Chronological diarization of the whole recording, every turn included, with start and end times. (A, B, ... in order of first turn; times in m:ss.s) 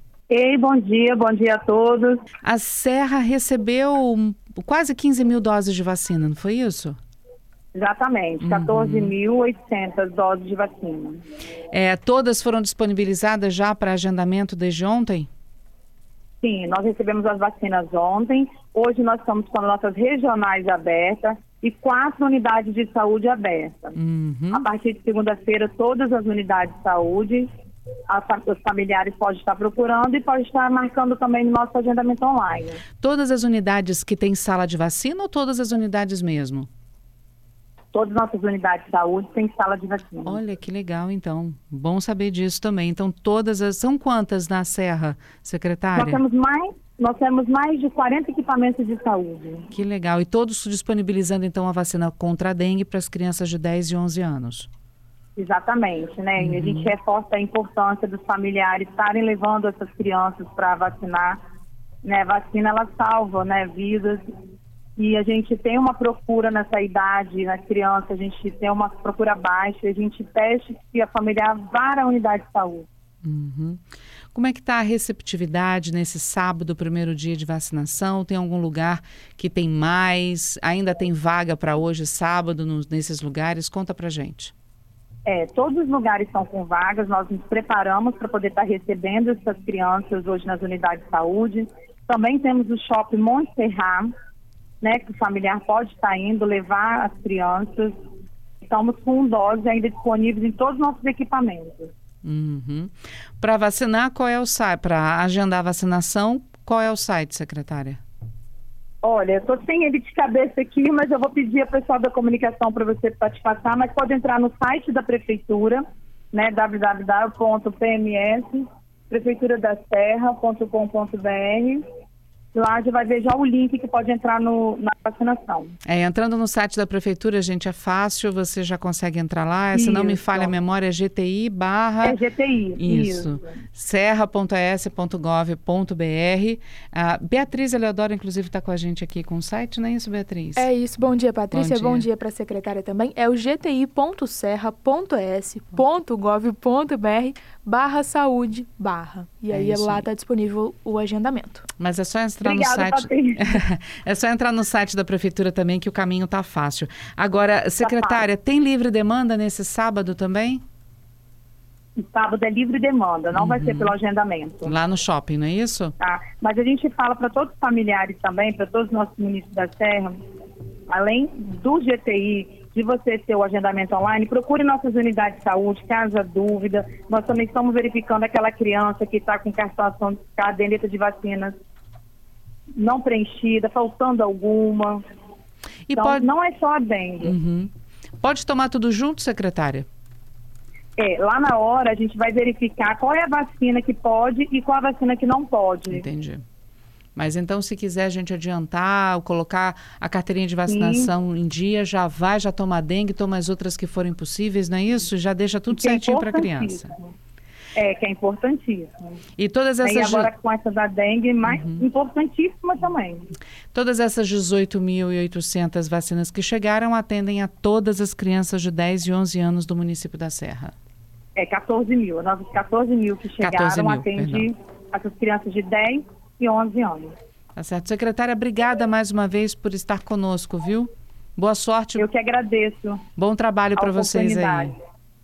0:00.3-0:02.2 A
0:02.4-0:07.0 B
0:07.7-0:11.2 A
0:08.4-0:09.1 B
0:11.7-0:15.3 B
0:16.4-0:24.0 A
0:24.0-0:24.6 B
0:24.5-0:27.5 A
0:28.1-0:32.8 A
0:33.0-0:36.7 B
0:37.9-0:40.4 A
0:40.2-0:46.2 B
0:45.9-0:49.7 A
0:49.7-0:54.7 B
0:55.4-1:01.4 A
0:56.4-0:56.9 B
1:02.0-1:04.2 A
1:05.0-1:12.9 A
1:13.2-1:13.8 B
1:14.3-1:24.5 B
1:25.2-1:34.1 A
1:34.8-1:37.9 A
1:38.6-1:41.9 A
1:42.2-1:48.0 B
1:49.0-1:55.8 A
1:56.3-2:01.8 A
2:02.5-2:05.7 A
2:05.8-2:12.2 B
2:09.7-2:10.5 A
2:12.0-2:13.4 A
2:12.8-2:20.7 B
2:20.6-2:31.7 C
2:21.5-2:22.1 B
2:29.5-2:30.0 B
2:31.8-2:40.6 B
2:32.4-2:33.6 A
2:37.8-2:38.2 A
2:42.0-2:44.8 A
2:43.3-2:43.9 B
2:44.6-2:45.9 B
2:46.0-2:50.2 A
2:50.9-3:01.5 A
3:02.8-3:05.0 A
3:05.9-3:06.2 B
3:05.9-3:07.3 A
3:07.2-3:09.9 B
3:11.0-3:16.0 A
3:15.9-3:16.4 B
3:17.2-3:26.9 B
3:20.7-3:21.1 A
3:25.7-3:27.1 A
3:27.7-3:29.2 A
3:29.4-3:30.3 B
3:29.8-3:33.2 A
3:31.4-3:31.8 B
3:33.7-3:40.7 B
3:41.4-3:47.1 A
3:43.4-3:44.5 B
3:47.6-3:52.1 B
3:52.0-3:53.0 A
3:53.2-3:54.7 B
3:53.8-3:54.7 A